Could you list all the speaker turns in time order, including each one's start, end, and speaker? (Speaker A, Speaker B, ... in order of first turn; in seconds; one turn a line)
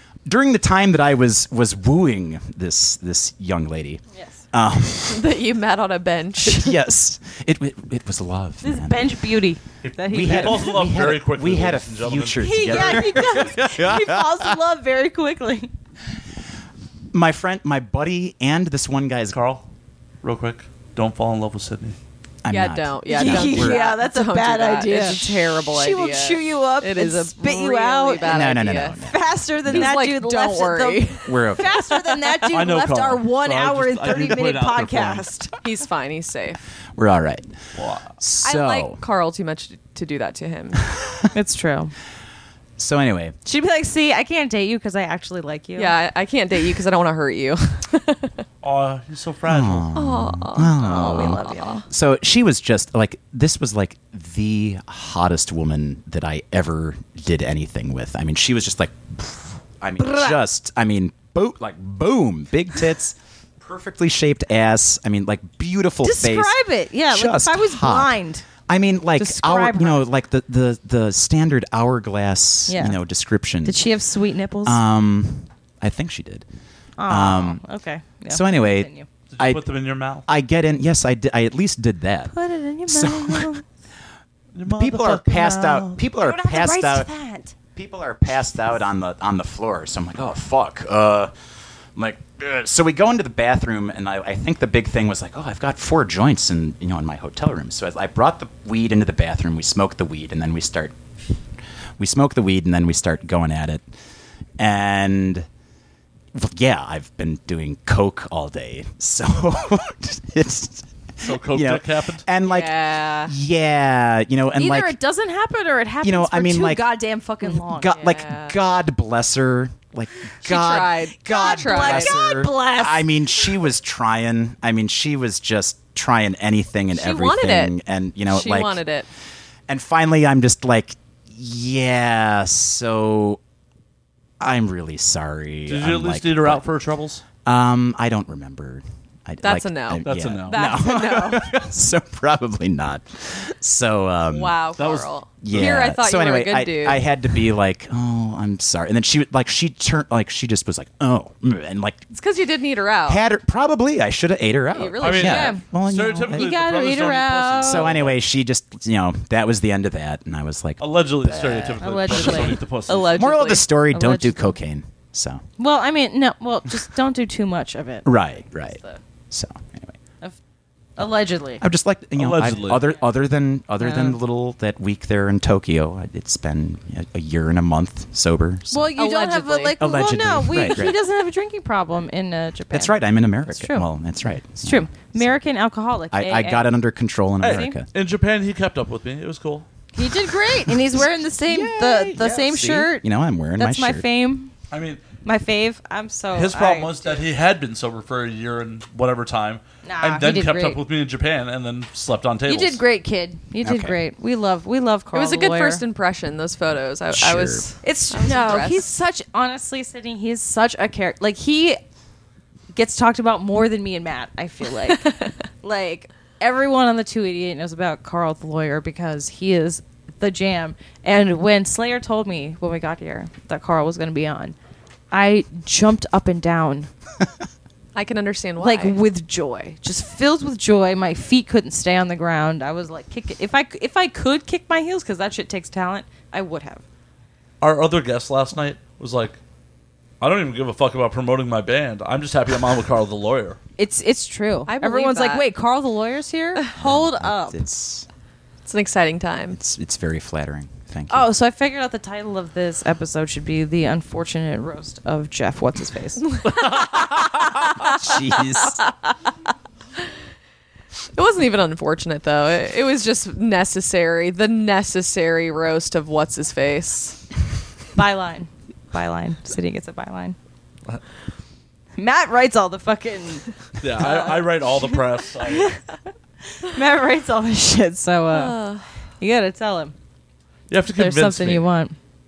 Speaker A: 0.2-5.3
Speaker B: 5.1-6.8
Speaker A: 6.4-9.2
Speaker C: 8.6-10.7
Speaker D: 9.8-13.2
Speaker A: 10.1-14.5
Speaker C: 12.4-15.7
Speaker A: 17.1-19.4
Speaker D: 19.3-19.6
Speaker D: 20.2-22.0
Speaker A: 22.4-23.9
Speaker B: 22.5-29.0
Speaker C: 23.1-28.4
Speaker A: 25.0-25.2
Speaker A: 28.2-29.9
Speaker C: 28.9-35.5
Speaker B: 29.7-31.6
Speaker A: 31.2-31.8
Speaker D: 32.5-35.2
Speaker B: 35.6-36.6
Speaker A: 37.0-37.5
Speaker D: 37.8-38.1
Speaker A: 38.2-39.0
Speaker B: 38.4-40.9
Speaker C: 41.3-41.9
Speaker A: 42.8-43.3
Speaker C: 43.4-45.9
Speaker B: 45.8-48.3
Speaker D: 48.6-49.9
Speaker A: 49.5-66.6
Speaker B: 49.9-51.8
Speaker C: 50.9-51.8
Speaker C: 60.0-60.4
Speaker C: 66.0-68.4
Speaker A: 67.1-73.8
Speaker C: 69.2-70.0
Speaker C: 72.7-73.0
Speaker C: 73.6-74.8
Speaker A: 74.6-76.4
Speaker C: 77.0-79.1
Speaker A: 77.1-77.6
Speaker A: 78.3-79.7
Speaker D: 79.3-80.2
Speaker A: 80.3-82.3
Speaker C: 82.3-83.6
Speaker A: 82.9-83.5
Speaker D: 84.5-86.0
Speaker A: 84.7-87.1
Speaker C: 86.2-87.5
Speaker A: 87.7-91.3
Speaker A: 92.0-101.0
Speaker A: 102.0-103.8
Speaker A: 104.6-105.5
Speaker A: 106.3-112.7
Speaker D: 111.2-112.2
Speaker B: 112.4-113.3
Speaker A: 113.2-115.0
Speaker C: 114.6-118.0
Speaker A: 116.0-116.8
Speaker A: 117.5-128.8
Speaker B: 117.9-118.5
Speaker B: 120.4-122.2
Speaker C: 121.2-123.5
Speaker B: 126.9-129.1
Speaker A: 129.7-133.4
Speaker A: 134.4-136.6
Speaker D: 135.7-137.2
Speaker A: 137.4-144.6
Speaker B: 139.4-141.6
Speaker D: 140.0-140.6
Speaker B: 144.3-147.2
Speaker D: 144.8-145.6
Speaker A: 145.4-152.1
Speaker B: 152.1-153.2
Speaker A: 153.1-156.5
Speaker B: 154.7-155.6
Speaker D: 155.0-158.2
Speaker C: 155.2-157.9
Speaker A: 157.6-160.8
Speaker D: 160.8-163.1
Speaker B: 161.3-163.7
Speaker C: 161.8-162.6
Speaker A: 163.1-165.4
Speaker C: 163.9-164.6
Speaker C: 165.6-168.1
Speaker A: 168.0-168.8
Speaker A: 169.3-169.9
Speaker C: 171.0-171.6
Speaker A: 171.6-178.9
Speaker D: 172.2-172.8
Speaker C: 173.8-174.2
Speaker C: 178.7-183.9
Speaker B: 178.9-179.8
Speaker A: 179.8-181.0
Speaker A: 182.7-185.4
Speaker C: 184.6-186.6
Speaker A: 186.1-187.9
Speaker B: 186.2-186.6
Speaker D: 187.4-189.7
Speaker C: 187.4-187.7
Speaker C: 189.9-193.1
Speaker A: 191.4-194.1
Speaker C: 193.6-194.5
Speaker D: 194.7-195.0
Speaker C: 195.2-197.0
Speaker D: 196.3-202.8
Speaker C: 199.8-200.8
Speaker C: 202.5-205.8
Speaker A: 203.6-204.0
Speaker B: 205.1-208.9
Speaker A: 207.1-207.7
Speaker C: 207.8-211.8
Speaker C: 212.7-224.5
Speaker C: 225.1-226.9
Speaker B: 227.9-228.9
Speaker C: 228.6-236.8
Speaker D: 237.6-239.4
Speaker D: 240.2-243.6
Speaker C: 243.8-247.6
Speaker B: 244.7-245.4
Speaker A: 246.7-248.1
Speaker B: 248.6-249.6
Speaker A: 249.5-251.3
Speaker C: 251.1-256.2
Speaker B: 256.5-257.1
Speaker A: 258.0-258.8
Speaker B: 258.1-258.9
Speaker B: 261.1-267.2
Speaker C: 267.9-270.4
Speaker C: 272.0-275.0
Speaker D: 273.8-275.8
Speaker C: 276.6-278.6
Speaker B: 278.3-278.9
Speaker C: 279.2-279.9
Speaker D: 280.7-281.6
Speaker C: 280.9-281.9